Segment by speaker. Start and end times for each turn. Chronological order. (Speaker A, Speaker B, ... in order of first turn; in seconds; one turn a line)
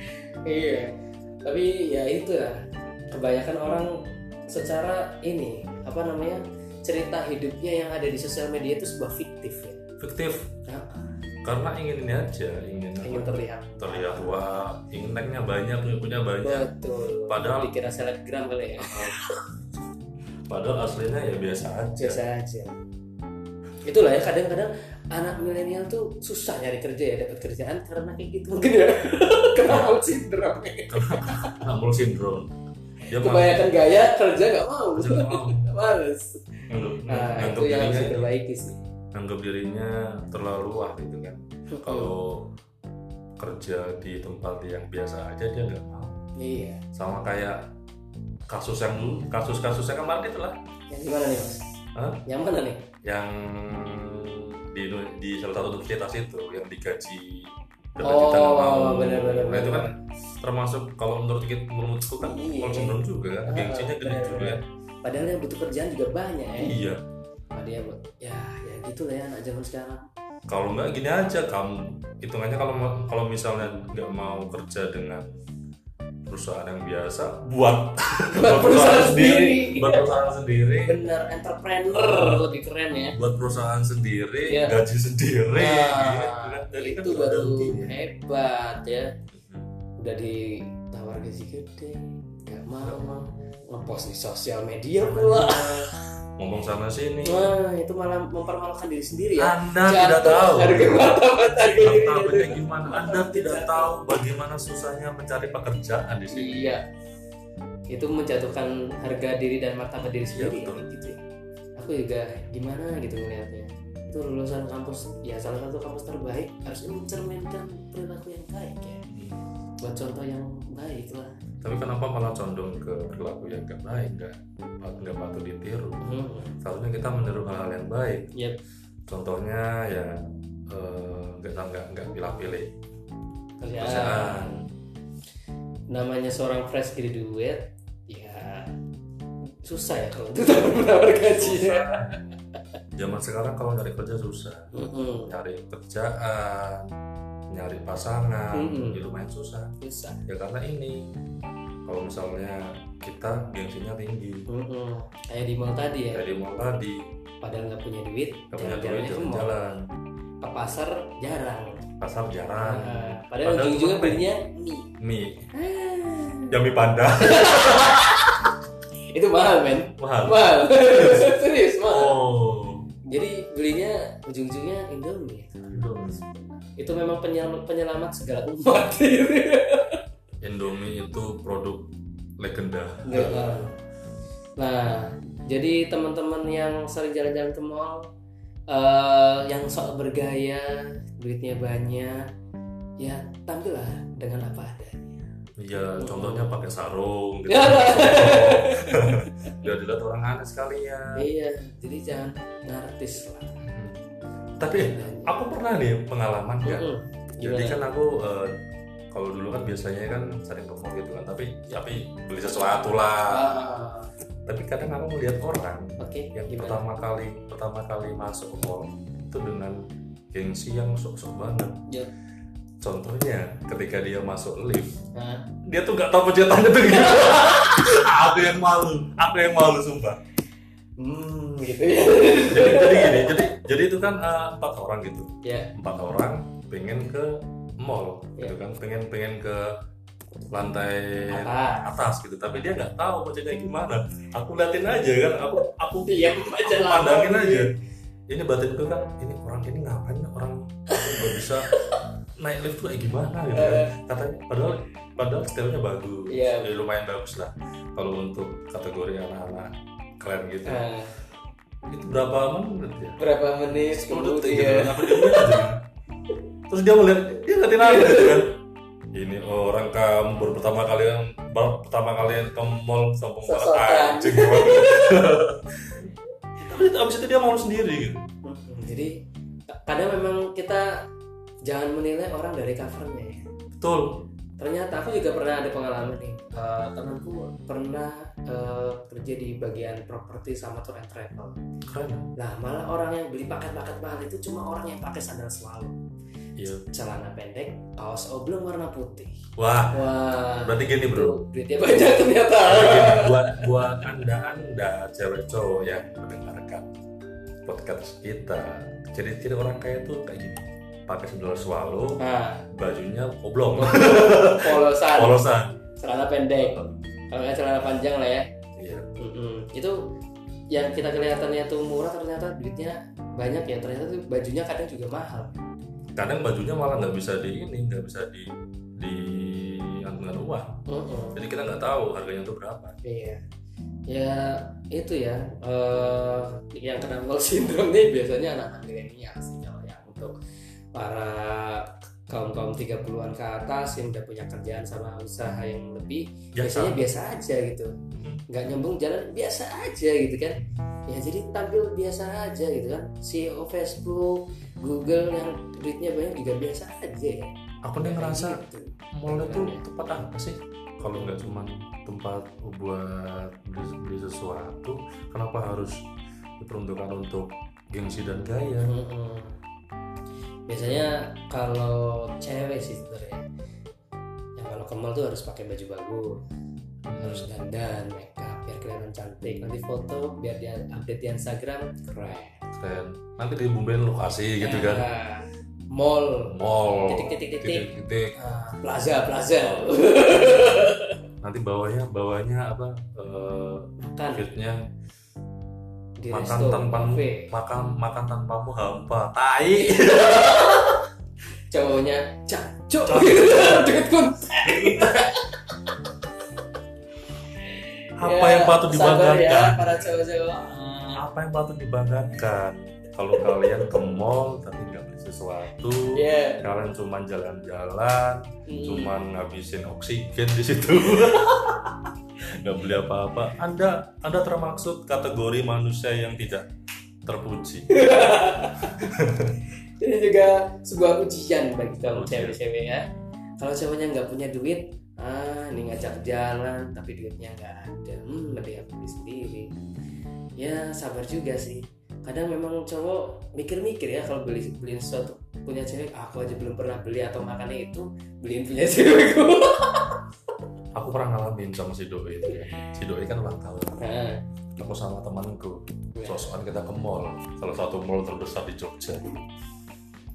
Speaker A: 0.4-9.8
Speaker B: 10.0-10.5
Speaker A: 10.7-11.1
Speaker B: 11.4-16.7
Speaker A: 13.0-14.4
Speaker A: 16.4-19.3
Speaker B: 17.3-17.7
Speaker B: 18.8-19.2
Speaker B: 20.5-22.2
Speaker A: 22.0-22.8
Speaker A: 23.8-31.6
Speaker B: 29.6-30.0
Speaker B: 30.9-32.5
Speaker B: 33.1-33.7
Speaker A: 33.1-38.8
Speaker B: 34.9-35.7
Speaker B: 36.7-38.3
Speaker B: 39.1-42.5
Speaker A: 41.7-42.1
Speaker B: 43.4-46.2
Speaker A: 46.4-46.8
Speaker B: 46.9-47.7
Speaker B: 48.5-50.6
Speaker A: 49.0-49.2
Speaker A: 50.9-51.6
Speaker B: 51.9-52.2
Speaker A: 52.2-52.9
Speaker B: 53.0-64.6
Speaker A: 58.0-59.9
Speaker A: 62.2-66.8
Speaker B: 66.6-67.0
Speaker A: 67.5-70.0
Speaker B: 70.5-75.3
Speaker B: 76.3-81.0
Speaker A: 78.3-80.2
Speaker A: 80.8-83.2
Speaker B: 81.9-82.5
Speaker B: 83.1-88.0
Speaker A: 84.5-84.8
Speaker A: 85.5-89.1
Speaker B: 89.3-89.7
Speaker A: 90.0-95.9
Speaker B: 92.8-93.3
Speaker B: 95.0-97.5
Speaker A: 97.2-103.9
Speaker B: 99.4-106.7
Speaker A: 106.3-106.8
Speaker A: 107.9-111.2
Speaker B: 110.3-110.9
Speaker A: 111.8-119.0
Speaker B: 119.1-119.4
Speaker A: 119.8-121.4
Speaker B: 121.6-126.0
Speaker A: 126.0-126.5
Speaker B: 126.6-128.3
Speaker B: 129.1-132.7
Speaker A: 133.6-134.6
Speaker B: 133.8-134.7
Speaker A: 135.9-138.7
Speaker A: 139.6-142.2
Speaker B: 141.2-142.1
Speaker B: 142.9-144.7
Speaker A: 144.7-145.3
Speaker B: 145.3-146.9
Speaker B: 147.5-149.7
Speaker A: 148.5-149.0
Speaker A: 149.8-150.2
Speaker B: 150.2-151.1
Speaker B: 151.8-154.5
Speaker A: 154.5-156.2
Speaker B: 156.1-157.1
Speaker A: 157.4-159.6
Speaker B: 158.5-159.8
Speaker A: 160.4-161.8
Speaker B: 162.0-164.3
Speaker A: 162.6-164.9
Speaker B: 165.0-165.5
Speaker A: 165.5-166.6
Speaker B: 166.5-168.1
Speaker A: 167.2-168.4
Speaker A: 169.1-172.2
Speaker B: 170.0-172.9
Speaker A: 173.1-180.0
Speaker B: 175.7-176.2
Speaker B: 180.4-183.7
Speaker A: 183.0-183.7
Speaker A: 184.6-188.1
Speaker A: 188.7-192.2
Speaker A: 193.0-195.2
Speaker B: 195.6-201.2
Speaker A: 195.9-196.5
Speaker A: 197.5-199.2
Speaker A: 201.2-203.6
Speaker B: 203.6-204.0
Speaker B: 204.6-206.9
Speaker A: 204.7-205.3
Speaker A: 206.6-207.8
Speaker B: 207.4-208.6
Speaker B: 209.1-213.7
Speaker A: 213.3-214.1
Speaker B: 214.5-219.8
Speaker A: 216.0-216.8
Speaker B: 220.3-221.8
Speaker B: 222.8-225.0
Speaker A: 225.1-225.5
Speaker B: 225.6-230.2
Speaker A: 227.1-227.5
Speaker A: 231.0-233.3
Speaker B: 232.5-239.7
Speaker A: 235.4-235.7
Speaker B: 240.5-247.7
Speaker A: 241.3-241.9
Speaker A: 246.0-247.7
Speaker B: 248.3-251.7
Speaker A: 250.9-252.0
Speaker B: 252.4-260.8
Speaker A: 253.5-254.0
Speaker A: 256.3-256.7
Speaker A: 260.6-261.1
Speaker B: 261.9-263.2
Speaker A: 263.2-265.6
Speaker B: 263.9-265.8
Speaker B: 266.7-268.6
Speaker A: 267.8-268.4
Speaker B: 269.1-278.2
Speaker A: 273.4-275.4
Speaker A: 278.4-281.1
Speaker A: 281.6-283.4
Speaker B: 283.8-284.2
Speaker A: 284.6-291.6
Speaker B: 291.9-292.3
Speaker A: 292.4-296.0
Speaker B: 296.6-296.9
Speaker A: 296.9-299.4
Speaker B: 299.6-300.0
Speaker A: 299.9-303.8
Speaker B: 300.6-301.4
Speaker B: 302.6-306.9
Speaker B: 307.6-312.2
Speaker A: 312.2-312.6
Speaker B: 312.7-315.7
Speaker A: 313.7-315.4
Speaker A: 316.0-318.5
Speaker B: 316.6-316.9
Speaker B: 318.8-319.1
Speaker A: 319.2-320.0
Speaker A: 320.7-325.6
Speaker B: 326.1-330.8
Speaker A: 330.9-331.4
Speaker B: 331.3-332.9
Speaker A: 333.0-333.4
Speaker A: 334.1-340.3
Speaker A: 340.9-347.9
Speaker B: 346.6-347.1
Speaker B: 348.2-348.4
Speaker A: 348.5-359.8
Speaker B: 357.8-358.6
Speaker B: 359.1-366.0
Speaker A: 361.0-361.4
Speaker B: 366.6-368.9
Speaker A: 368.8-369.6
Speaker A: 370.7-373.4
Speaker A: 374.6-376.4
Speaker B: 377.1-377.5
Speaker A: 377.2-382.6
Speaker B: 382.7-385.1
Speaker A: 384.6-391.2
Speaker B: 386.5-388.3
Speaker B: 389.6-390.8
Speaker B: 391.4-394.8
Speaker A: 394.0-394.4
Speaker A: 396.2-397.5
Speaker B: 396.3-400.9
Speaker A: 399.8-401.0
Speaker A: 401.7-405.5
Speaker B: 403.1-404.0
Speaker B: 404.6-405.4
Speaker A: 407.7-411.2
Speaker B: 408.2-410.2
Speaker B: 411.1-426.7
Speaker A: 416.1-416.6
Speaker A: 418.7-419.1
Speaker B: 427.2-428.0
Speaker A: 427.9-428.9
Speaker B: 428.9-429.6
Speaker A: 430.0-433.0
Speaker B: 432.1-432.6
Speaker A: 433.6-439.7
Speaker A: 440.6-450.2
Speaker B: 450.9-454.0
Speaker A: 454.0-454.4
Speaker B: 454.8-459.2
Speaker A: 456.1-456.5